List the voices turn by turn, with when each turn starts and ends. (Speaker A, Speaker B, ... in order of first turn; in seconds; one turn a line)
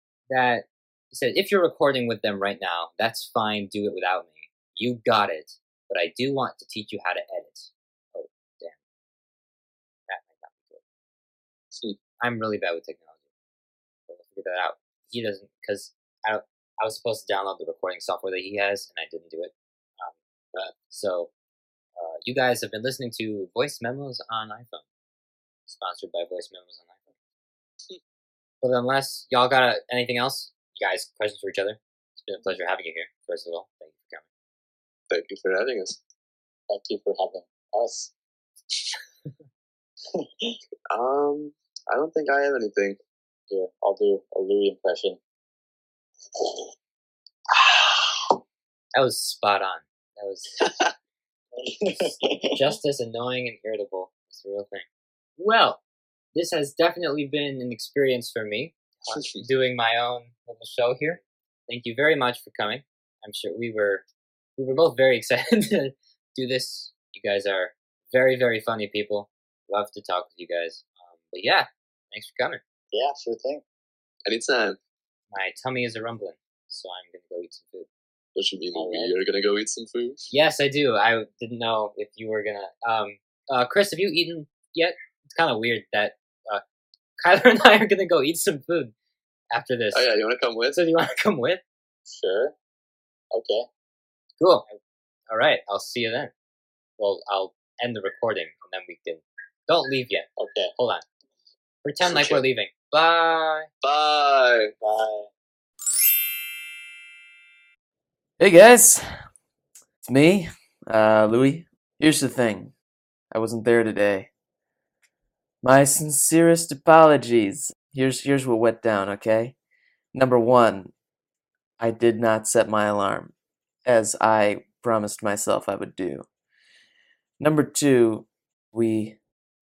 Speaker A: 0.3-8.8
Speaker A: 10.1-10.8
Speaker A: 12.2-13.2
Speaker A: 14.1-20.1
Speaker A: 20.7-21.3
Speaker A: 22.0-24.8
Speaker A: 25.7-27.1
Speaker A: 28.6-34.2
Speaker B: 35.1-36.0
Speaker C: 36.7-38.1
Speaker C: 40.1-40.6
Speaker B: 40.9-43.0
Speaker C: 43.5-45.2
Speaker C: 46.3-46.6
Speaker C: 47.5-48.4
Speaker A: 48.9-50.5
Speaker C: 51.5-52.7
Speaker A: 51.9-54.9
Speaker A: 55.4-55.8
Speaker A: 56.3-64.1
Speaker B: 59.1-59.4
Speaker A: 64.6-72.6
Speaker C: 72.9-73.6
Speaker B: 74.2-74.8
Speaker A: 75.3-77.9
Speaker B: 78.3-80.2
Speaker C: 78.8-79.1
Speaker A: 80.3-86.6
Speaker A: 87.2-88.9
Speaker A: 89.5-90.1
Speaker B: 89.9-90.8
Speaker A: 90.7-91.6
Speaker C: 92.1-92.5
Speaker C: 93.3-93.7
Speaker A: 94.4-94.7
Speaker A: 95.3-96.3
Speaker A: 97.0-101.0
Speaker C: 100.4-100.7
Speaker A: 101.8-103.7
Speaker B: 103.8-104.7
Speaker C: 104.8-105.3
Speaker D: 108.4-109.1
Speaker D: 110.0-112.7
Speaker D: 113.3-114.3
Speaker D: 115.6-119.5
Speaker D: 120.1-120.9
Speaker D: 121.8-123.3
Speaker D: 123.9-126.2
Speaker D: 127.4-129.2